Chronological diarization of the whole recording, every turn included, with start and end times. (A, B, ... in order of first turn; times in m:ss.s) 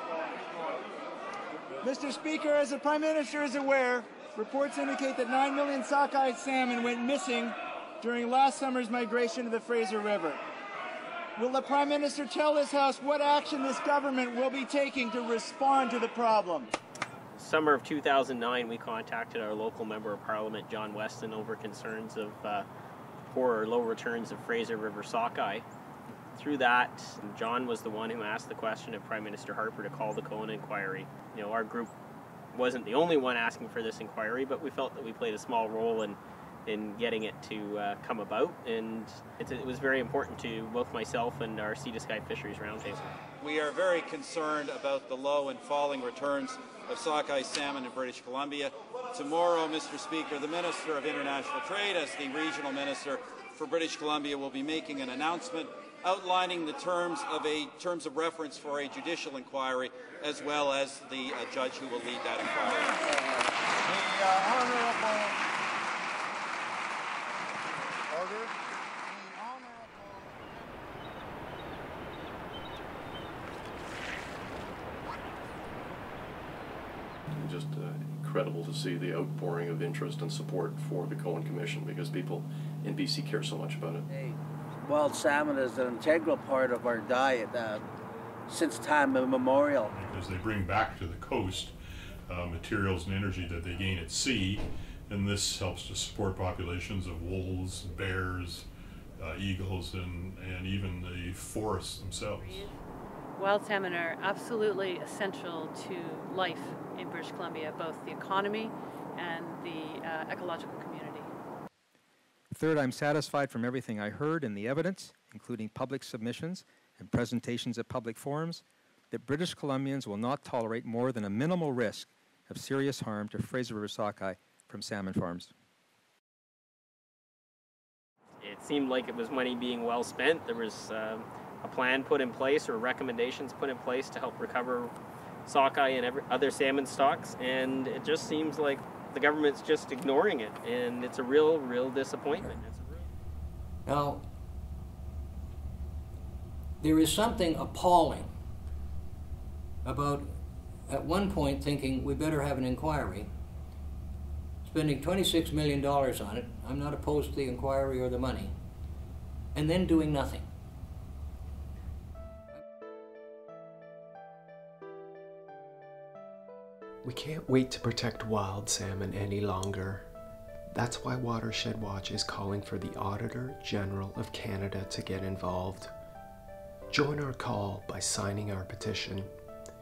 0:01.8-0:10.4 A
0:11.4-0:16.7 A
0:17.4-0:22.6 B
0:23.3-0:25.6 B
0:26.3-0:31.9 B
0:32.5-0:43.1 B
0:43.4-1:03.0 C
1:03.9-1:05.4 D
1:08.1-1:08.5 D
1:09.1-1:10.4 D
1:17.3-1:24.0 E
1:24.1-1:27.8 F
1:28.5-1:29.9 F
1:29.9-1:31.7 G
1:32.3-1:38.7 G
1:39.2-1:42.7 G
1:42.4-1:42.7 H
1:43.4-1:51.3 H
1:52.5-2:05.5 I
2:08.4-2:14.9 B
2:15.4-2:23.1 B
2:23.8-2:24.2 J
2:26.8-2:28.3 J
2:29.8-2:30.3 J
2:30.9-2:33.3 J
2:34.6-2:38.5 J
2:39.5-2:40.4 J
2:47.0-2:50.1 K
2:50.7-2:55.9 K
2:56.9-2:59.3 K